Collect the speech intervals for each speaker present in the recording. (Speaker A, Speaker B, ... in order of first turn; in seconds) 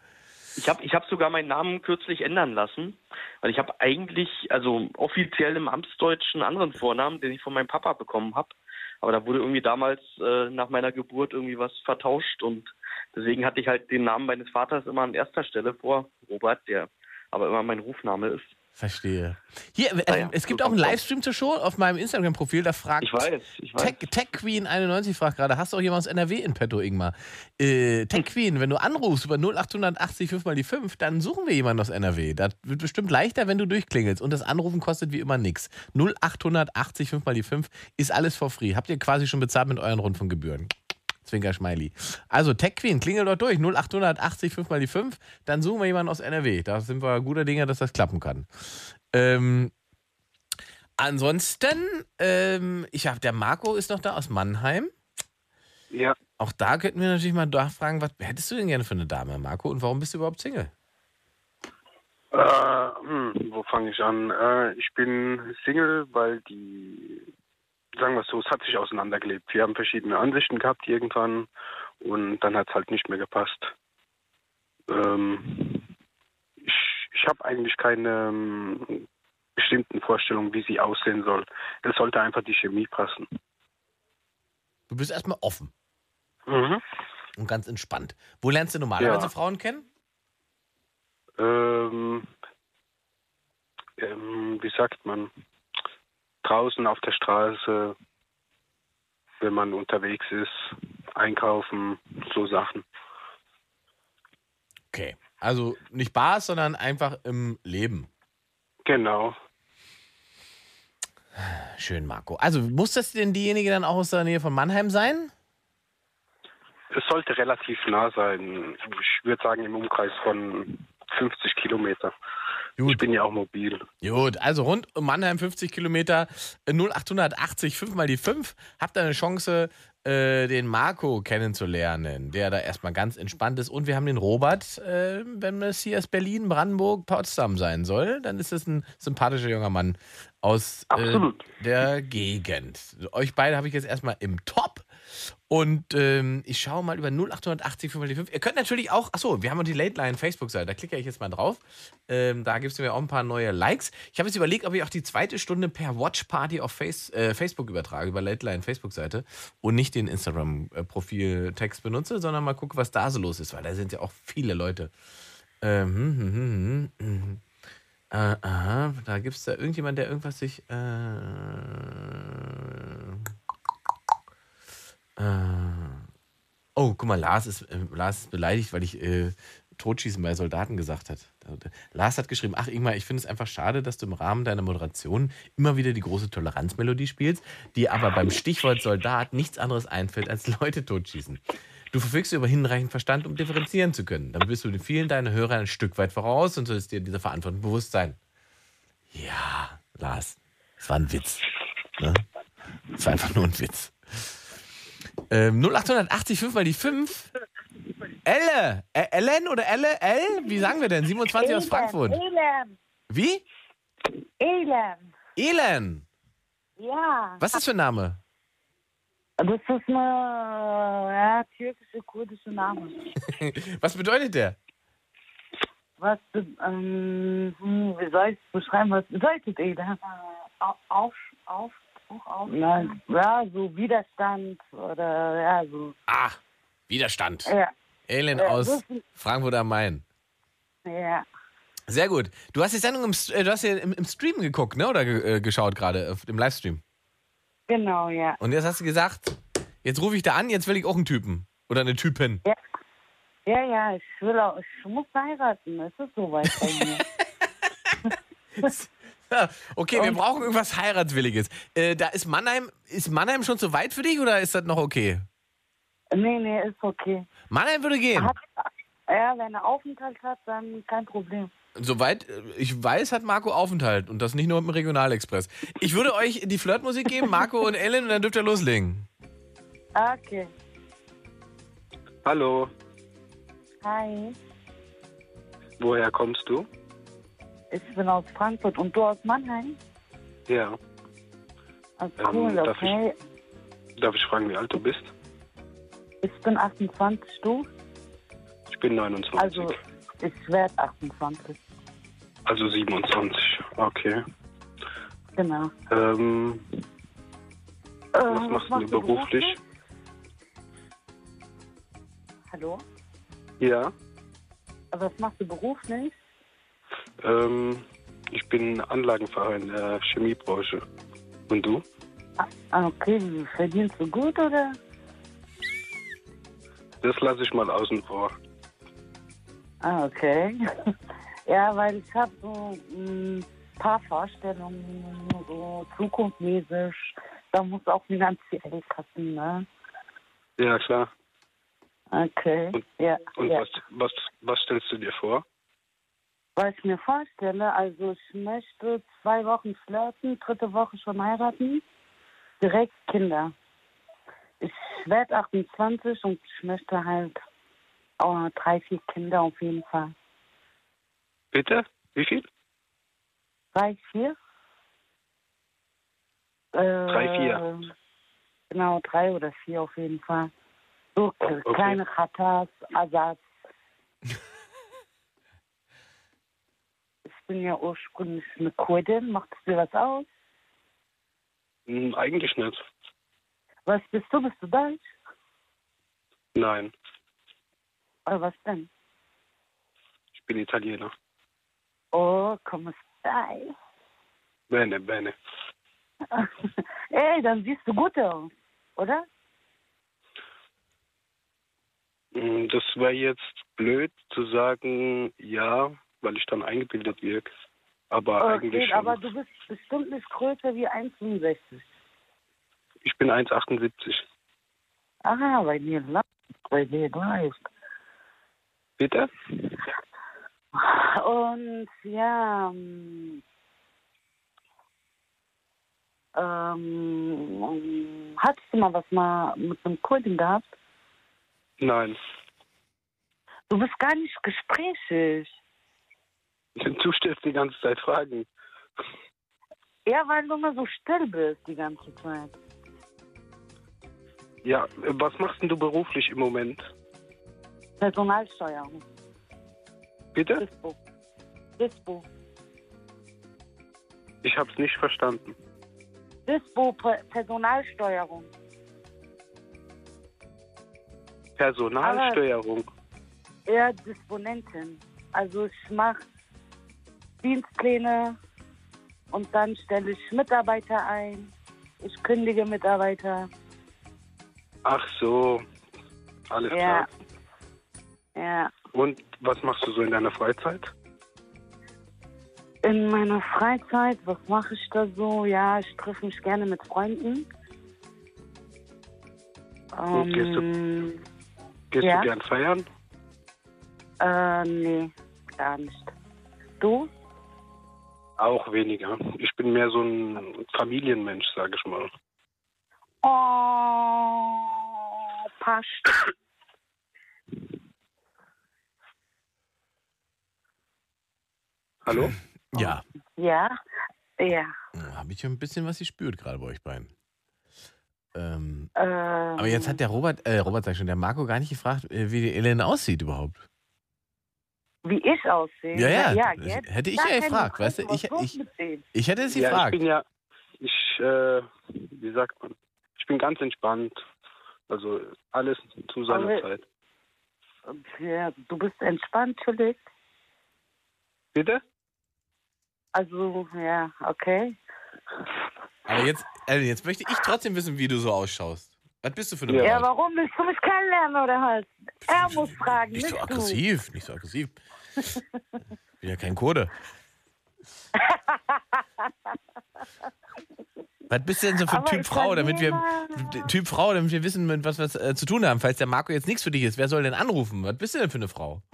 Speaker A: 0.6-18.6, 20.1-21.0, 23.0-24.0, 140.9-141.5
Speaker B: 18.8-40.7, 41.2-49.7, 51.0-54.9, 56.4-60.7, 84.9-85.7, 87.4-89.9, 104.9-108.1, 111.4-115.3, 122.8-123.1, 124.0-164.9, 165.6-167.4, 168.1-173.3, 175.2-176.1, 176.8-191.4, 191.9-198.2, 199.1-201.4, 202.0-202.2, 202.9-204.4, 205.3-207.3, 208.2-212.2, 213.1-213.4, 215.4-216.1, 217.4-218.2, 223.2-224.6, 236.1-237.5, 238.1-240.0, 241.9-246.8, 248.4-252.4, 258.6-265.3, 267.5-268.3, 271.8-279.1, 512.1-513.0, 514.9-517.1, 518.3-518.9, 519.6-523.6, 525.9-528.5, 529.1-530.0, 546.1-550.1, 552.6-554.8, 556.2-556.9, 561.3-568.8
Speaker C: 55.9-56.2, 62.3-67.3, 68.0-71.5, 72.0-73.7, 74.9-75.8, 76.6-79.0, 79.6-83.3, 86.5-86.8, 89.0-89.3, 91.4-92.3, 94.0-95.3, 96.4-98.0, 99.4-102.8, 108.8-109.4, 116.9-122.1, 122.8-123.8, 282.2-282.7, 285.8-286.7, 290.5-290.8, 292.2-292.9, 294.0-295.1, 298.7-299.7, 302.5-304.2, 305.9-306.6, 308.3-309.6, 313.6-313.9, 317.2-320.8, 321.5-321.8, 327.0-328.3, 340.6-341.1, 343.4-345.4, 361.5-362.4, 367.1-367.6, 371.7-372.0, 381.9-382.8, 386.6-386.9, 390.3-391.1, 394.7-395.4, 402.3-407.5, 408.1-409.2, 413.0-414.2, 419.0-419.3, 431.8-432.2, 436.8-438.5, 444.6-446.9, 450.4-450.6, 454.4-455.6, 461.6-462.9, 474.9-475.6, 476.5-477.1, 478.9-480.9, 490.1-490.6, 491.9-492.9, 498.4-502.1, 512.0-512.3, 529.5-530.2, 530.8-534.2, 534.9-536.9, 541.5-541.8
Speaker D: 211.4-212.8, 214.4-215.0, 216.8-217.5, 219.4-223.0, 226.0-230.0, 232.5-236.0, 237.5-237.7, 238.3-239.0, 240.9-241.3, 247.7-248.4, 253.5-257.0, 266.1-267.3, 268.1-268.4, 269.1-271.5, 280.0-280.5, 283.8-284.4, 287.7-289.8, 292.0-293.1, 296.2-297.7, 299.4-301.6, 305.4-305.7, 308.1-309.6, 312.5-312.8, 314.9-316.2, 322.4-324.8, 329.8-330.6, 331.5-339.7, 342.1-343.7, 346.6-351.8, 352.6-353.5, 354.6-357.4, 358.2-360.1, 363.7-364.4, 366.7-367.9, 368.7-370.5, 371.1-373.5, 377.3-380.3, 383.9-385.1, 388.3-388.9, 392.1-393.8, 396.3-399.3, 408.4-411.9, 415.2-417.7, 420.8-423.4, 426.4-430.7, 433.7-435.6, 440.1-442.5, 448.0-449.0, 450.6-451.0, 451.8-452.2, 456.5-458.5, 462.0-462.4, 463.7-466.2, 467.4-468.4, 469.3-473.5, 476.7-477.1, 478.4-478.7, 482.8-487.5, 489.9-491.2, 492.0-492.3, 494.2-496.1, 496.8-497.1, 503.2-506.2, 512.8-513.8, 514.4-514.7, 519.0-520.0, 525.0-529.0, 536.3-536.7, 537.9-540.0, 543.1-544.8, 549.8-553.8, 558.2-559.5, 561.9-563.7
Speaker E: 230.6-232.9